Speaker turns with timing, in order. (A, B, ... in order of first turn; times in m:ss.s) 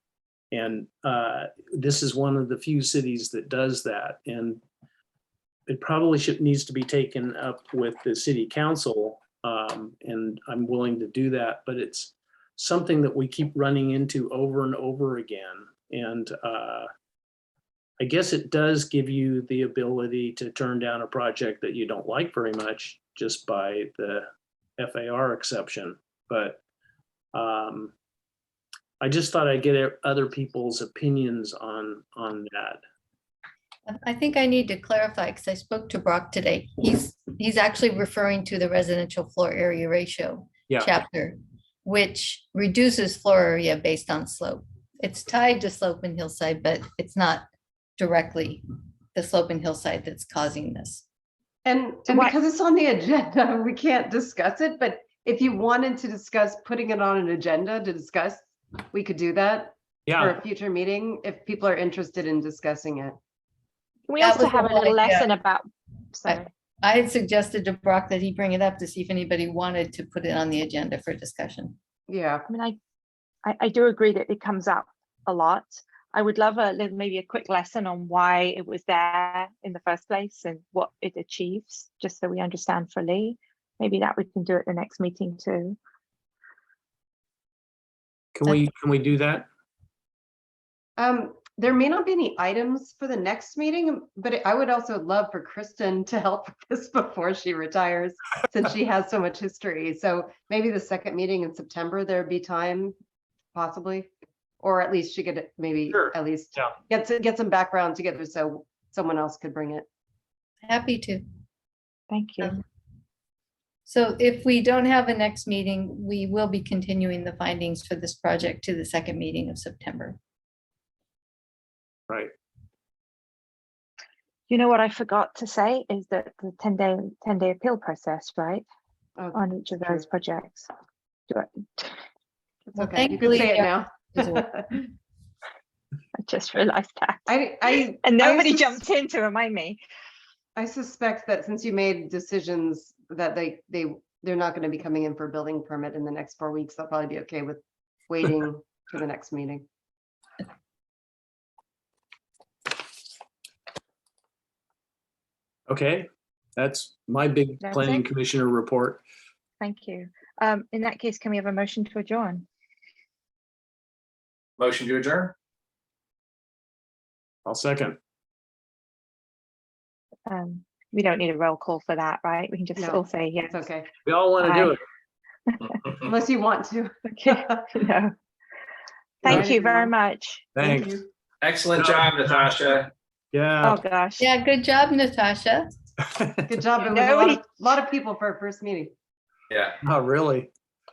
0:00.5-0:04.6 A
0:05.7-0:16.9 A
0:18.0-0:24.3 A
0:24.8-0:26.6 A
0:27.3-0:27.9 A
0:29.0-0:32.8 A
0:33.9-0:47.5 B
0:48.0-0:48.6 B
0:49.1-0:51.0 B
0:51.6-1:03.2 C
0:52.1-0:52.3 D
1:00.1-1:00.4 A
1:04.1-1:06.5 D
1:04.2-1:05.3 B
1:06.3-1:11.8 B
1:12.1-1:12.4 C
1:12.5-1:12.8 D
1:13.4-1:25.8 D
1:28.3-1:29.5 A
1:31.0-1:42.9 C
1:43.5-1:49.8 C
1:45.9-1:46.8 A
1:50.6-1:51.2 B
1:52.1-1:52.6 D
1:53.9-2:00.2 B
2:04.5-2:08.6 D
2:09.2-2:10.0 C
2:09.3-2:10.7 D
2:11.3-2:12.0 D
2:12.7-2:14.9 C
2:12.8-2:14.4 B
2:16.2-2:19.8 D
2:17.3-2:18.8 C
2:20.6-2:29.6 C
2:35.7-2:39.0 A
2:37.6-2:38.0 D
2:39.6-2:42.4 D
2:44.6-2:45.3 E
2:47.4-2:48.0 A
2:50.3-2:53.6 D
2:52.8-2:53.9 C
2:54.0-2:54.8 A
2:54.4-2:54.8 D
2:56.0-2:57.7 C
2:57.1-2:58.1 D
2:59.2-2:59.9 C
2:59.2-3:00.5 D
3:00.5-3:01.0 A
3:00.6-3:01.1 C
3:01.4-3:02.9 E
3:01.8-3:02.3 A
3:03.3-3:03.8 A
3:03.6-3:04.3 D
3:04.2-3:05.7 B
3:06.2-3:06.4 A
3:06.5-3:08.9 C
3:06.8-3:07.4 D
3:09.5-3:09.8 E
3:09.8-3:10.5 A